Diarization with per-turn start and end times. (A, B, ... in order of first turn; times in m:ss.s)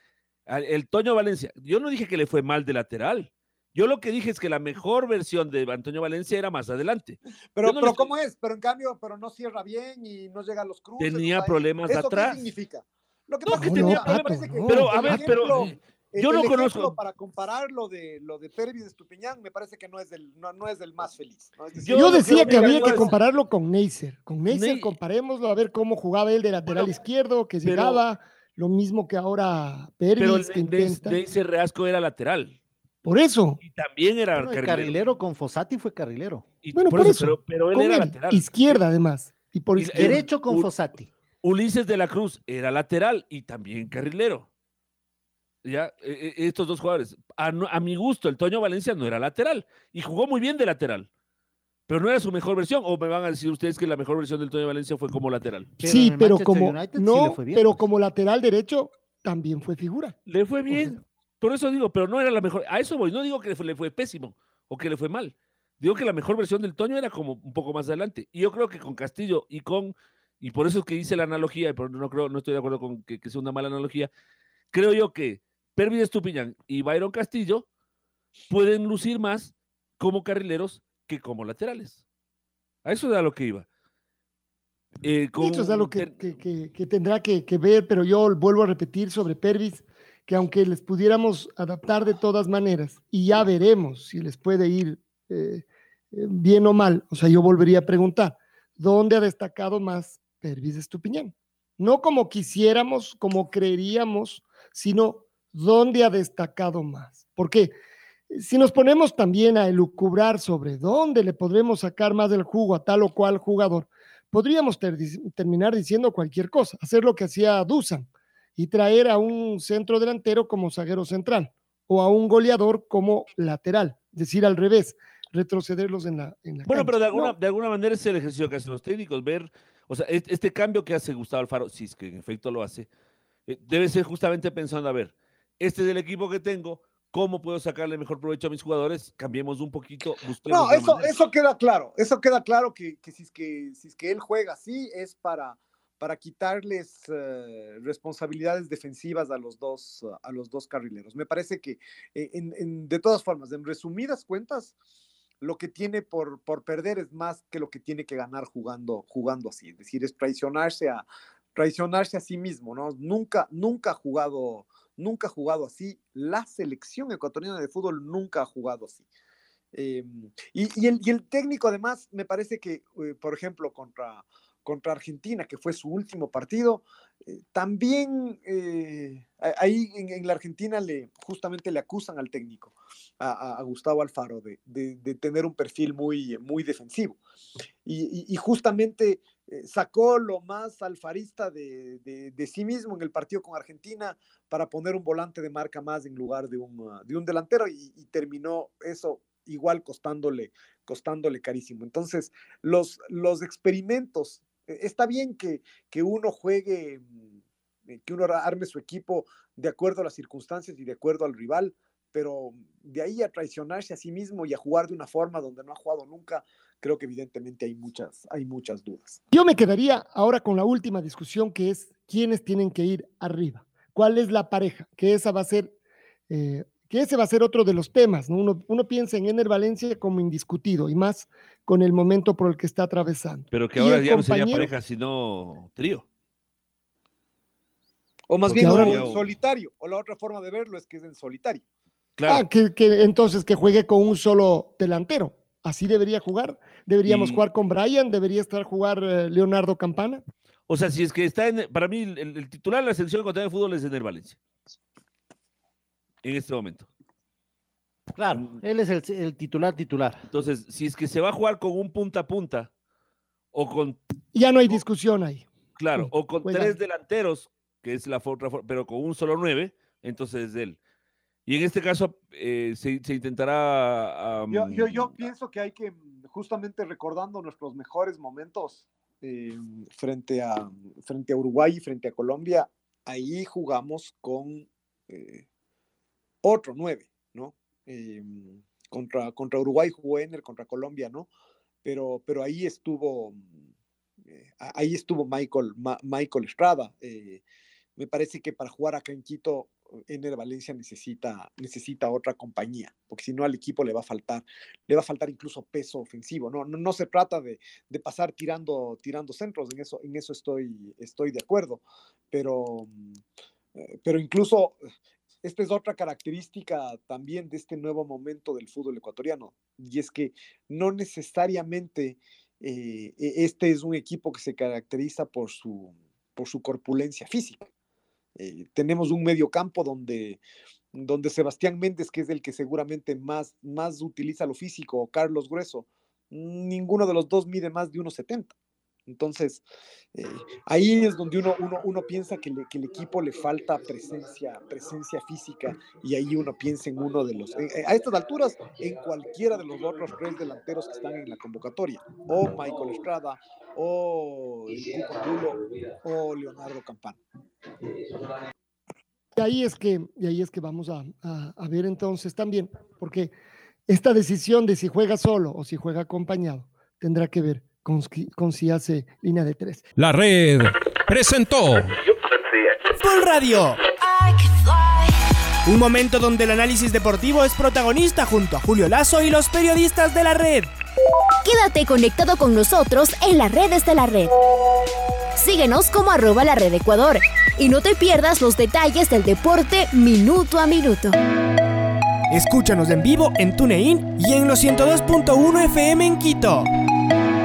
0:00.5-0:08.1 A
0:07.6-0:23.1 B
0:11.0-0:12.5 A
0:13.5-0:15.6 C
0:13.5-0:17.0 A
0:21.8-0:23.2 A
0:21.9-0:31.2 C
0:24.5-0:25.0 A
0:27.6-0:28.0 A
0:30.2-0:32.6 A
0:33.0-0:33.6 C
0:33.6-0:35.0 A
0:34.4-0:36.5 D
0:36.6-0:38.8 A
0:36.7-0:40.3 C
0:39.8-0:40.7 A
0:40.0-0:41.1 D
0:41.4-0:44.5 A
0:45.6-0:51.1 A
0:51.9-0:55.8 A
0:55.8-0:57.8 D
0:55.8-1:00.2 C
1:00.3-1:14.1 A
1:00.7-1:01.0 C
1:14.7-1:17.7 A
1:18.5-1:22.0 A
1:22.8-1:23.7 A
1:25.0-1:26.3 A
1:25.4-1:47.8 C
1:48.3-2:07.3 C
2:06.7-2:12.9 A
2:13.5-2:21.1 A
2:20.5-2:34.7 B
2:35.4-2:49.0 B
2:49.7-3:07.2 B
3:07.8-3:27.3 B
3:27.9-3:39.2 B
3:39.3-3:45.8 C
3:46.3-3:54.7 C
3:53.5-3:56.1 A
3:58.3-4:01.6 B
3:58.5-3:59.3 A
3:58.5-3:59.1 C
4:02.2-4:02.5 A
4:02.3-4:10.2 C
4:07.0-4:07.4 A
4:10.7-4:14.4 A
4:16.2-4:16.9 A
4:18.2-4:20.2 D
4:20.3-4:22.7 A
4:23.5-4:24.0 A
4:24.3-4:26.8 C
4:25.8-4:30.8 A
4:31.5-4:35.2 A
4:34.5-4:45.4 B
4:46.4-4:51.3 B
4:51.8-4:53.6 B
4:54.3-4:57.4 B
4:58.0-5:13.2 B
5:13.8-5:14.8 B
5:15.4-5:27.7 B
5:28.4-5:30.4 B
5:30.9-5:38.5 B
5:39.1-5:39.6 B
5:40.2-5:57.2 B
5:59.4-6:03.4 C
6:03.9-6:09.9 C
6:10.0-6:12.0 E
6:12.9-6:14.0 F
6:15.7-6:20.7 F
6:21.4-6:24.3 G
6:25.4-6:31.2 G
6:32.3-6:36.7 F